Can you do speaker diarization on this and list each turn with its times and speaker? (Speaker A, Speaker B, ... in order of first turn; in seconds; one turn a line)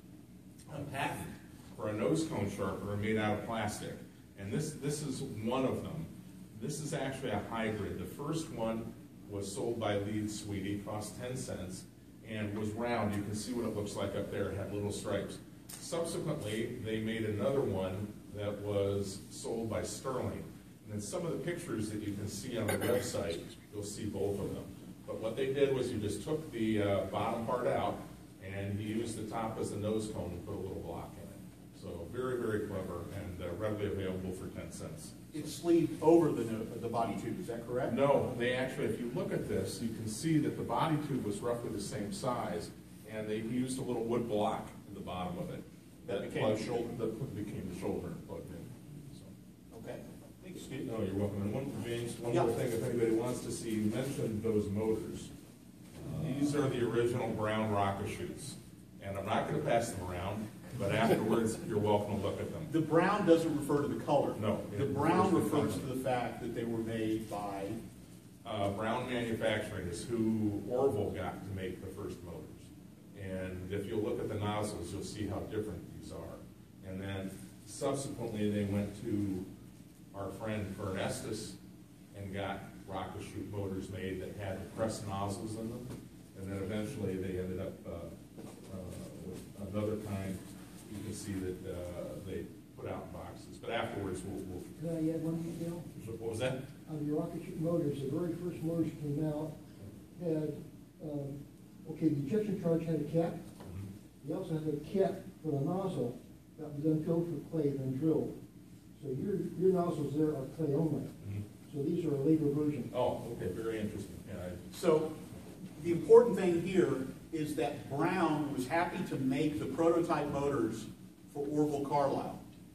Speaker A: 0.7-35.1
Speaker B: 35.3-38.0
Speaker A: 37.9-49.3
Speaker B: 46.0-46.9
Speaker B: 49.7-50.9
Speaker A: 50.8-55.3
Speaker A: 56.0-62.7
Speaker B: 56.1-56.6
Speaker B: 62.7-67.8
Speaker A: 64.3-65.9
Speaker A: 68.4-79.5
Speaker A: 80.1-81.6
Speaker A: 82.1-88.1
Speaker A: 88.7-94.7
Speaker C: 94.8-95.9
Speaker A: 95.9-96.6
Speaker C: 96.9-99.5
Speaker C: 100.2-103.4
Speaker C: 104.2-108.3
Speaker C: 109.0-111.1
Speaker C: 111.7-112.9
Speaker A: 112.9-114.7
Speaker B: 114.7-115.2
Speaker B: 115.8-122.4